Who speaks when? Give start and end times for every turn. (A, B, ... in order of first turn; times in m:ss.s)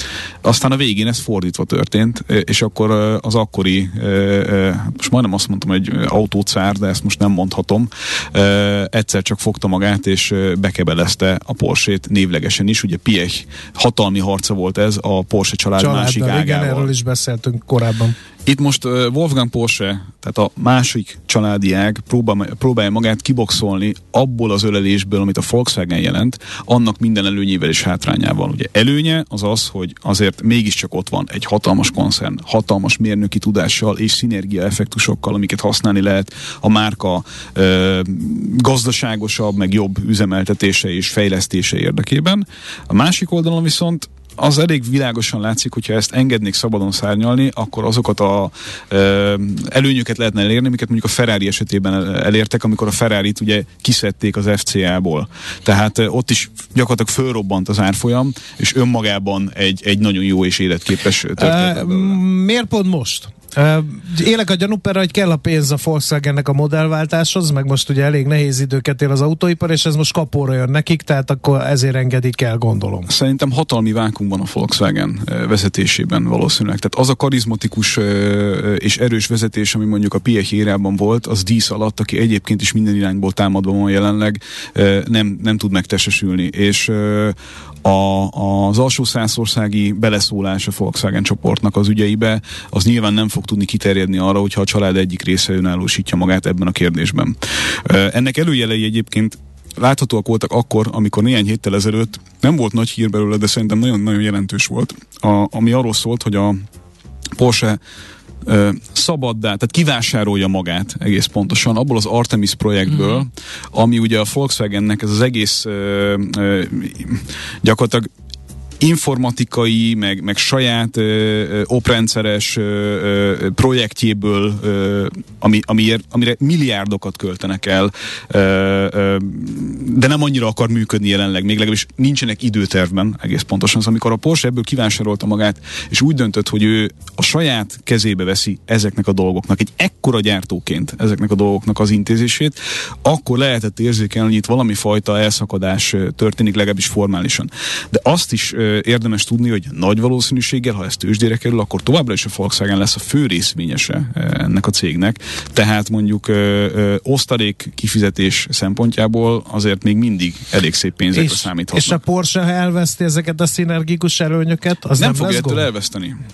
0:00.4-0:16.9 A
0:15.8-0:18.2 B
0:18.5-1:02.2 A
1:01.4-1:13.1 B
1:13.1-1:46.6 A
1:47.4-1:47.8 A
1:48.4-1:58.1 A
1:58.8-2:42.0 A
2:41.1-2:45.6 B
2:45.0-2:46.2 A